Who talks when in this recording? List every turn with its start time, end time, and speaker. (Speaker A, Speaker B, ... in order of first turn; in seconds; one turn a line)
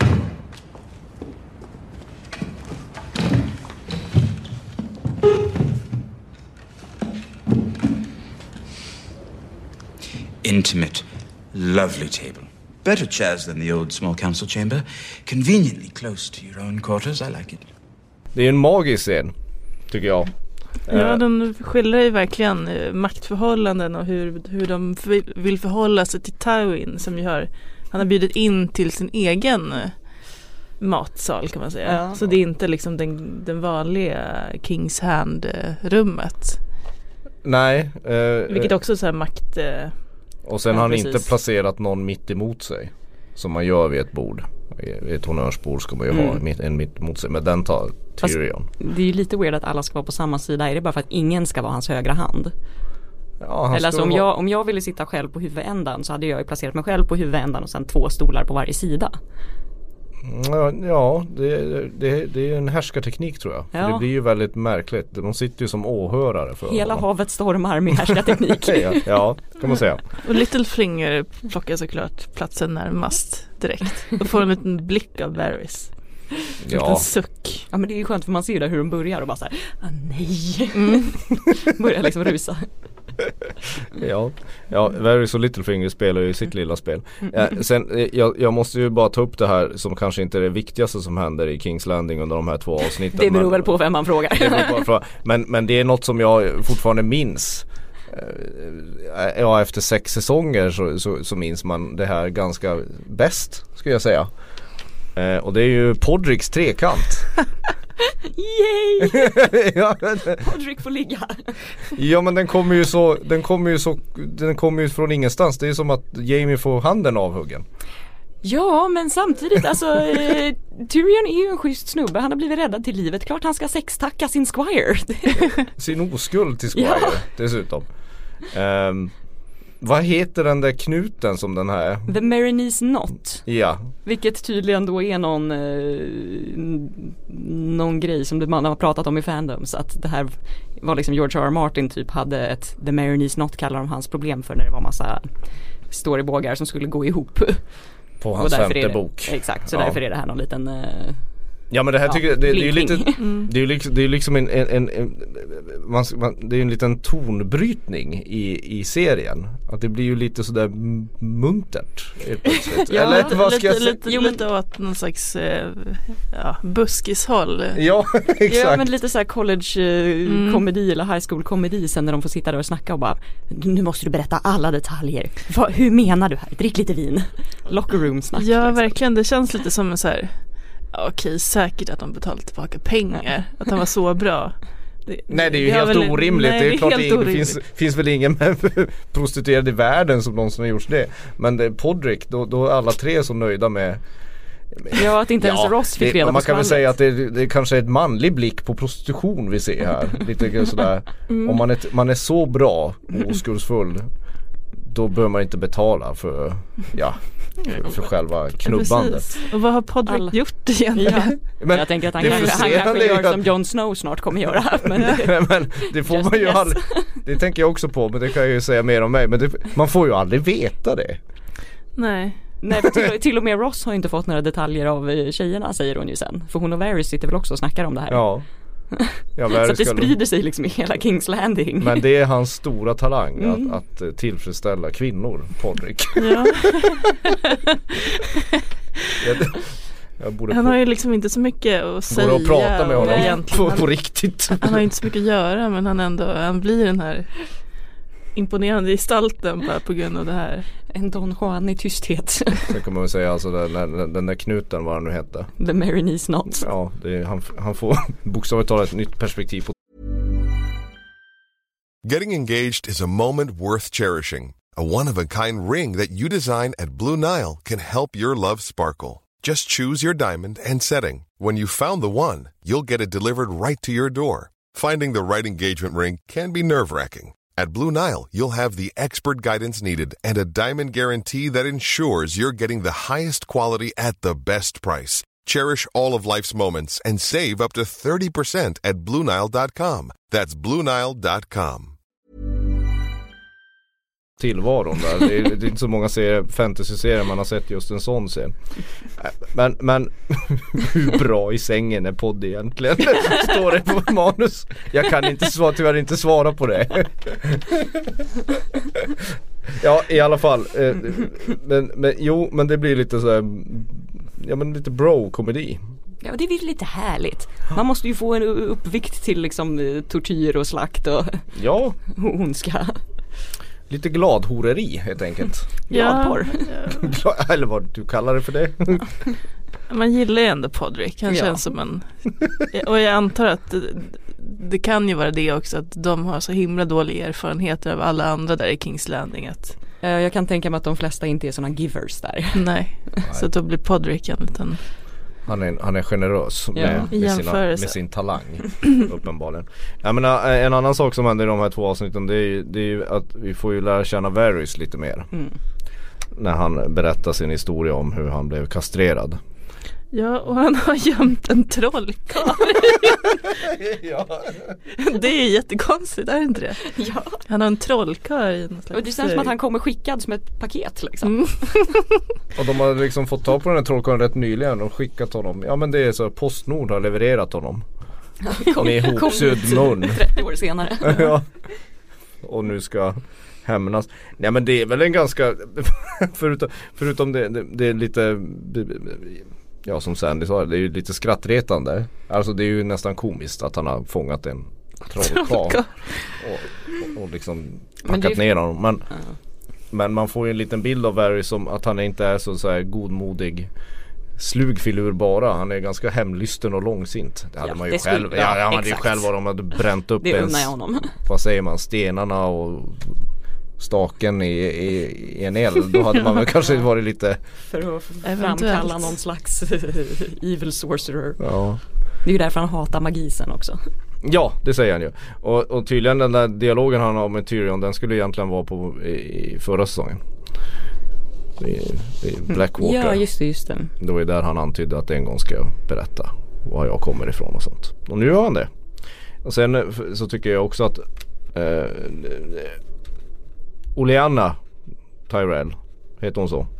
Speaker A: 10.4-17.7
Speaker B: 18.4-19.3
Speaker B: 19.9-20.3
Speaker B: 20.9-21.2
Speaker C: 20.9-29.9
Speaker C: 30.8-36.6
Speaker D: 31.9-32.2
Speaker B: 37.4-38.7
Speaker C: 38.5-39.9
Speaker B: 40.5-48.7
Speaker D: 40.8-41.2
Speaker D: 46.1-46.4
Speaker D: 48.2-52.5
Speaker B: 53.4-54.3
Speaker D: 53.7-59.2
Speaker B: 60.2-67.0
Speaker D: 63.7-64.0
Speaker D: 66.7-69.2
Speaker B: 68.1-70.0
Speaker C: 70.2-75.9
Speaker B: 76.7-77.1
Speaker C: 76.7-77.7
Speaker D: 77.7-82.7
Speaker C: 80.8-81.2
Speaker B: 83.9-93.7
Speaker D: 93.1-94.8
Speaker B: 94.3-104.3
Speaker B: 105.2-107.3
Speaker D: 108.2-109.5
Speaker B: 109.0-110.5
Speaker D: 110.3-111.5
Speaker B: 111.9-117.7
Speaker D: 118.4-125.5
Speaker B: 125.4-127.9
Speaker D: 126.7-127.2
Speaker B: 128.5-129.1
Speaker B: 129.8-132.1
Speaker D: 132.1-133.4
Speaker B: 133.5-133.9
Speaker D: 134.1-145.3
Speaker D: 145.9-147.6
Speaker B: 148.2-150.0
Speaker D: 148.4-151.2
Speaker B: 151.7-164.0
Speaker D: 152.1-153.2
Speaker C: 153.2-153.5
Speaker D: 162.8-163.4
Speaker C: 162.9-167.8
Speaker D: 164.1-164.4
Speaker B: 167.8-168.8
Speaker D: 168.5-178.9
Speaker C: 170.3-170.6
Speaker C: 178.4-180.3
Speaker C: 180.9-187.6
Speaker B: 185.3-194.0
Speaker B: 194.7-204.1
Speaker D: 194.9-196.9
Speaker C: 201.3-201.6
Speaker B: 204.8-209.3
Speaker C: 207.6-208.0
Speaker C: 208.6-211.4
Speaker D: 210.1-210.3
Speaker D: 211.0-217.2
Speaker B: 211.6-213.5
Speaker B: 215.0-221.2
Speaker C: 222.0-222.4
Speaker D: 222.6-228.3
Speaker B: 228.1-228.4
Speaker D: 228.9-232.0
Speaker B: 229.4-230.2
Speaker B: 231.8-237.1
Speaker D: 233.4-233.7
Speaker C: 236.2-237.6
Speaker B: 239.2-240.8
Speaker C: 240.5-243.9
Speaker B: 242.1-244.9
Speaker D: 243.0-243.3
Speaker C: 244.6-247.3
Speaker C: 248.3-250.7
Speaker D: 250.9-252.7
Speaker B: 252.7-255.5
Speaker D: 255.6-256.7
Speaker B: 256.5-259.8
Speaker E: 262.0-291.9
Speaker B: 294.4-298.6
Speaker B: 299.2-315.8
Speaker D: 316.2-321.4
Speaker B: 321.5-322.0
Speaker D: 322.1-323.0
Speaker B: 323.9-325.7
Speaker D: 325.9-326.7
Speaker C: 325.9-327.1
Speaker B: 326.9-329.1
Speaker C: 329.9-339.8
Speaker D: 331.3-331.6
Speaker D: 340.0-342.6
Speaker C: 342.5-344.8
Speaker B: 345.5-355.3
Speaker D: 346.8-347.1
Speaker C: 347.1-348.0
Speaker B: 356.4-359.4
Speaker C: 360.1-363.5
Speaker B: 363.2-364.8
Speaker C: 364.9-366.9
Speaker D: 366.9-367.4
Speaker C: 367.5-369.5
Speaker D: 368.9-371.7
Speaker C: 371.3-372.0
Speaker B: 372.6-377.9
Speaker D: 378.4-381.3
Speaker B: 378.7-380.2
Speaker B: 381.0-381.5
Speaker B: 382.4-395.8
Speaker C: 395.2-395.9
Speaker B: 396.4-399.1
Speaker D: 398.1-398.4
Speaker B: 399.9-403.7
Speaker B: 404.4-413.2
Speaker D: 407.6-409.3
Speaker D: 410.2-411.2
Speaker B: 413.8-417.4
Speaker D: 417.7-421.4
Speaker C: 418.2-419.1
Speaker B: 421.4-421.8
Speaker D: 422.2-423.8
Speaker B: 424.2-430.2
Speaker B: 431.6-433.2
Speaker D: 432.5-433.9
Speaker B: 434.0-438.7
Speaker B: 439.4-442.8
Speaker B: 444.0-444.6
Speaker B: 445.3-446.7